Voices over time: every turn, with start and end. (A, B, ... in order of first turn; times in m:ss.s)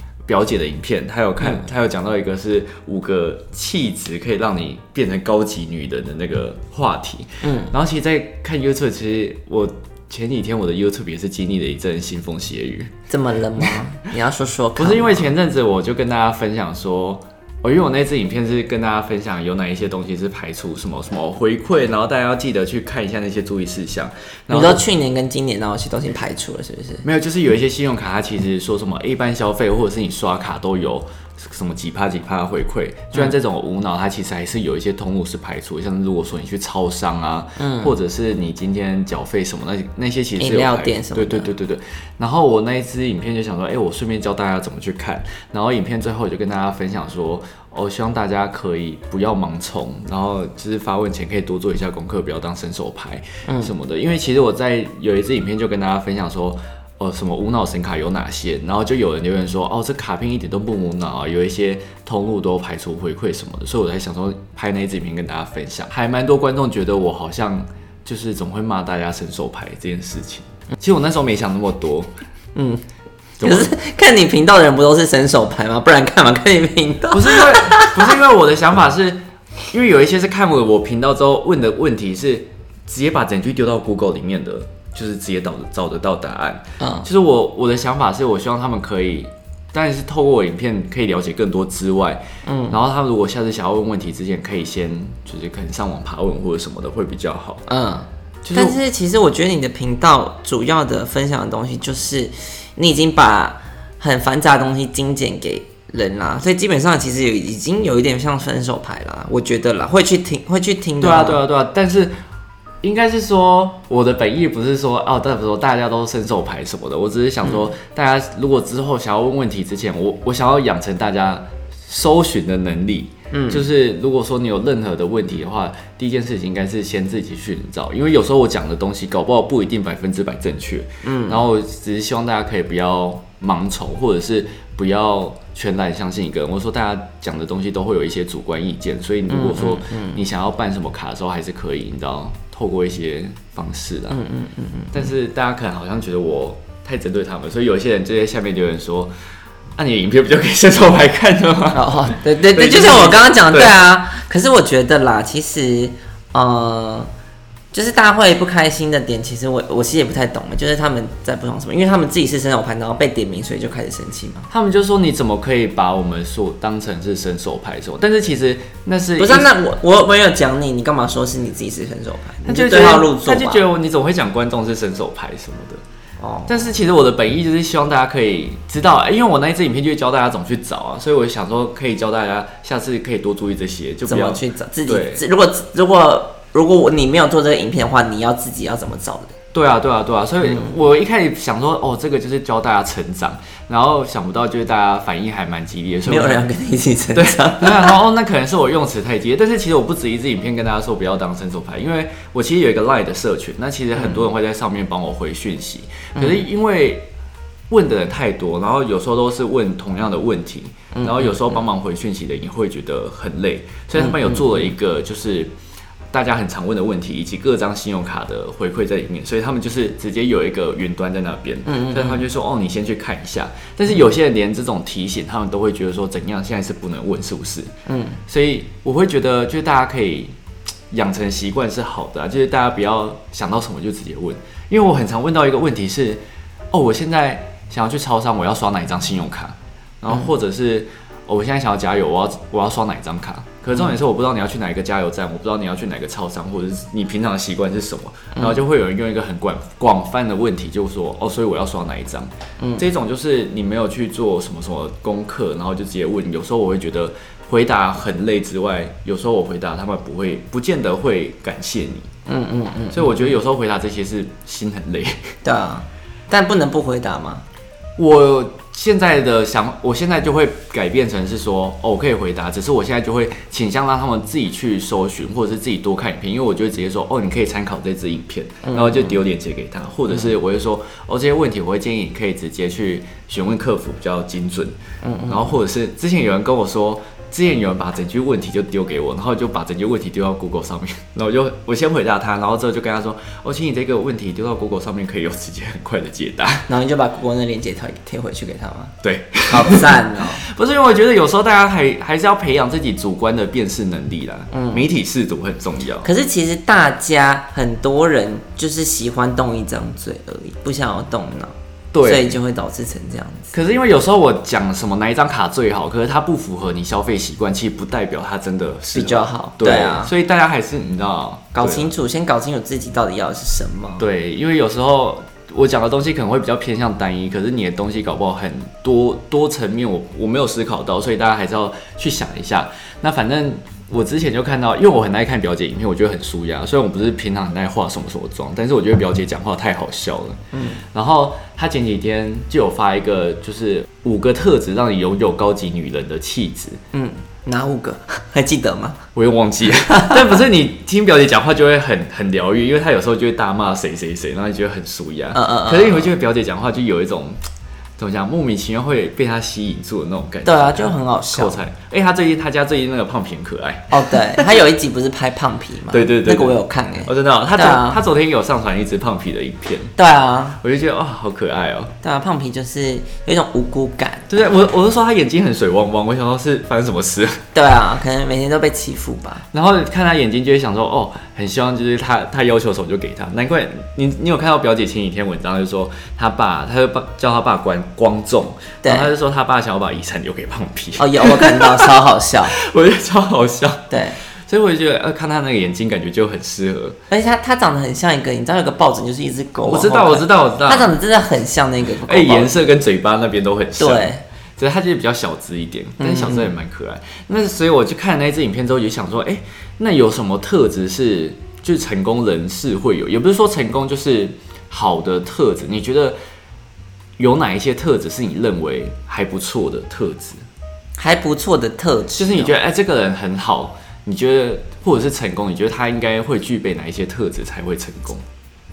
0:00.2-0:12.9 A
0:01.4-0:01.7 B
0:07.4-0:07.7 B
0:13.1-0:15.3 B
0:14.8-0:24.8 A
0:24.5-0:27.0 B
0:27.0-1:12.1 A
0:37.6-0:38.0 B
0:40.4-0:41.5 B
0:53.4-0:53.7 B
1:12.6-1:12.8 B
1:13.4-1:13.7 A
1:13.4-1:18.1 B
1:17.1-1:37.6 A
1:26.8-1:27.1 B
1:32.4-1:32.8 B
1:37.7-1:51.4 B
1:38.4-1:38.8 A
1:51.0-1:52.2 A
1:52.8-2:24.2 A
1:57.4-1:57.7 B
2:03.3-2:03.6 B
2:11.0-2:11.4 B
2:19.3-2:20.2 B
2:24.1-2:25.1 B
2:24.9-2:29.1 A
2:29.8-2:33.8 A
2:31.7-2:37.1 B
2:37.7-2:44.5 B
2:44.5-2:49.5 A
2:49.2-2:53.6 B
2:52.4-2:55.8 A
2:56.2-2:56.7 B
2:56.5-3:05.2 A
3:04.1-3:09.3 B
3:09.5-3:16.4 A
3:10.4-3:10.8 B
3:16.1-3:18.0 B
3:17.1-3:27.1 A
3:23.9-3:24.2 B
3:26.2-3:26.4 B
3:27.7-3:35.5 A
3:30.9-3:31.6 B
3:34.0-3:34.7 B
3:36.1-3:47.7 A
3:41.7-3:42.3 B
3:47.8-3:48.2 B
3:48.3-3:50.3 A
3:50.9-4:22.1 A
4:12.6-4:12.8 B
4:22.3-4:23.4 B
4:22.9-4:25.4 A
4:25.4-4:27.4 B
4:28.0-4:44.8 A
4:38.6-4:39.2 B
4:45.0-4:45.6 B
4:45.3-4:56.7 A
4:56.7-4:59.0 B
4:59.0-5:06.1 A
4:59.5-5:00.4 B
5:04.5-5:04.8 B
5:06.0-5:13.5 B
5:11.9-5:12.3 A
5:13.5-5:21.9 A
5:18.9-5:20.1 B
5:21.5-5:24.1 B
5:24.0-5:40.4 A
5:40.5-5:40.8 B
5:40.9-5:46.8 A
5:46.9-5:49.0 B
5:49.1-5:57.4 A
5:49.8-5:50.3 B
5:55.3-5:56.1 B
5:58.0-6:04.6 A
6:00.4-6:01.6 B
6:03.9-6:08.0 B
6:05.9-6:10.0 A
6:10.0-6:10.6 B
6:10.6-6:11.9 A
6:12.0-6:14.3 B
6:14.3-6:17.4 A
6:17.5-6:19.4 B
6:19.5-6:31.9 A
6:28.8-6:29.1 B
6:31.0-6:32.6 B
6:32.5-6:33.9 A
6:33.9-6:34.2 B
6:34.5-6:37.0 A
6:37.1-6:42.5 B
6:39.6-6:40.9 A
6:42.0-6:56.2 A
6:43.8-6:44.2 B
6:46.0-6:46.5 B
6:57.2-7:00.4 A
7:01.0-7:02.5 B
7:02.2-7:08.2 A